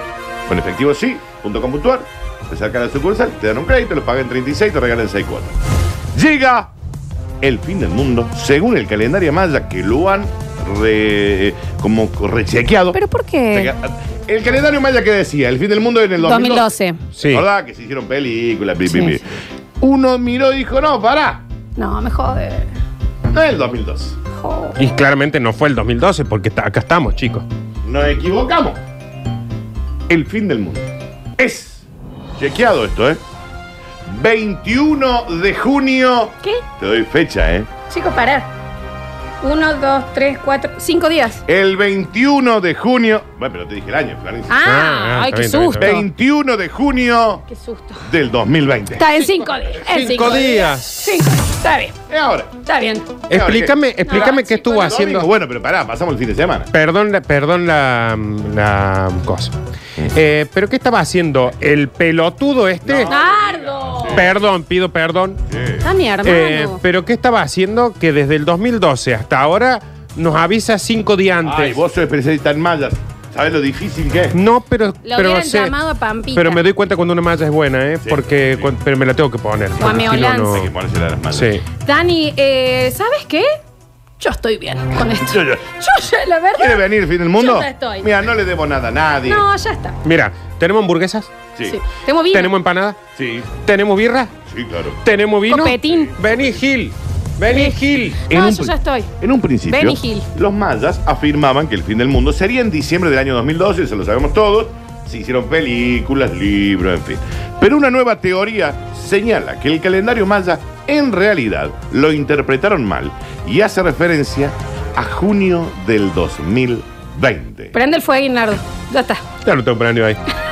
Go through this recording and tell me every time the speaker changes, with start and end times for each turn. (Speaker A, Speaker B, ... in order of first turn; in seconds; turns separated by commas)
Speaker A: 0.5-5.5, Speaker A: 6.1-6.7, Speaker A: 7.4-13.0, Speaker B: 12.9-13.7, Speaker A: 13.5-19.3, Speaker B: 16.2-17.0, Speaker C: 17.2-17.4, Speaker B: 18.9-19.2, Speaker A: 19.8-21.4, Speaker B: 21.8-22.7, Speaker A: 23.3-24.2, Speaker B: 24.3-24.8, Speaker C: 24.8-27.4, Speaker A: 27.8-28.8, Speaker A: 30.1-31.8, Speaker A: 32.4-33.2, Speaker A: 34.0-37.7, Speaker B: 37.9-38.5, Speaker B: 39.4-41.4, Speaker A: 41.5-44.6, Speaker B: 44.5-46.0, Speaker C: 44.6-45.9, Speaker A: 45.8-47.5, Speaker B: 47.5-48.1, Speaker A: 48.0-49.1, Speaker B: 49.0-51.9, Speaker C: 49.8-51.0, Speaker A: 52.1-52.5, Speaker B: 52.6-53.1, Speaker C: 53.3-55.3, Speaker A: 53.3-56.7, Speaker B: 54.0-54.9, Speaker C: 56.7-59.5, Speaker C: 60.1-63.1, Speaker A: 62.8-64.3, Speaker B: 63.1-64.2, Speaker C: 64.1-65.4, Speaker A: 65.5-65.8, Speaker B: 65.8-66.8, Speaker C: 66.2-71.8, Speaker A: 71.4-74.4, Speaker C: 74.3-75.8, Speaker B: 75.0-76.6, Speaker C: 76.3-80.7, Speaker A: 78.0-78.7, Speaker B: 79.8-80.6, Speaker A: 80.5-81.5, Speaker C: 81.3-81.6, Speaker B: 81.8-83.5, Speaker B: 84.2-88.1, Speaker A: 85.1-85.6, Speaker A: 86.5-89.4, Speaker B: 89.2-90.0, Speaker C: 90.0-91.3, Speaker B: 91.6-92.5, Speaker C: 92.3-93.0, Speaker A: 93.2-93.5, Speaker C: 93.6-94.3, Speaker A: 94.5-95.0, Speaker C: 95.0-98.2, Speaker B: 95.5-96.2, Speaker A: 96.2-96.6, Speaker B: 97.5-97.8, Speaker B: 98.3-99.1, Speaker A: 98.3-117.7, Speaker B: 99.7-100.3, Speaker B: 117.7-119.2, Speaker C: 119.4-120.2